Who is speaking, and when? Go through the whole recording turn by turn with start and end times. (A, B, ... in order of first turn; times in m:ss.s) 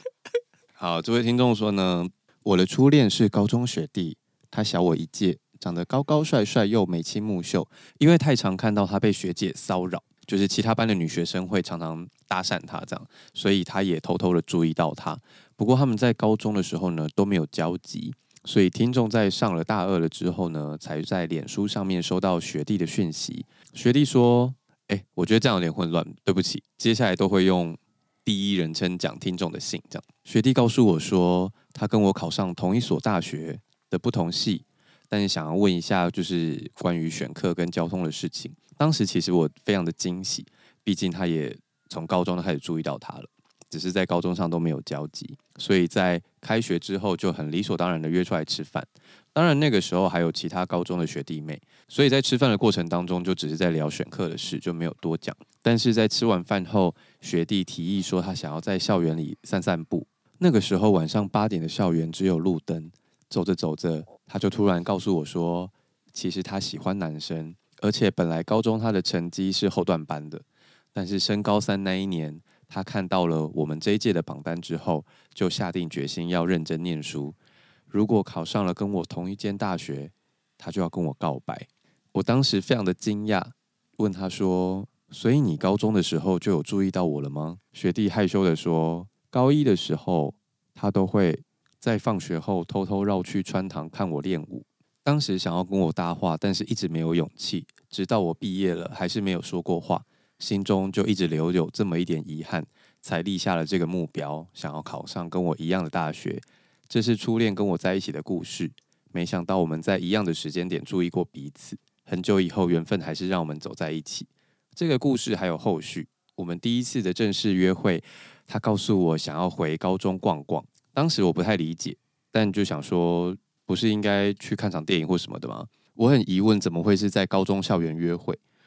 0:00.8-1:17.4 A
1:17.9-2:08.4 A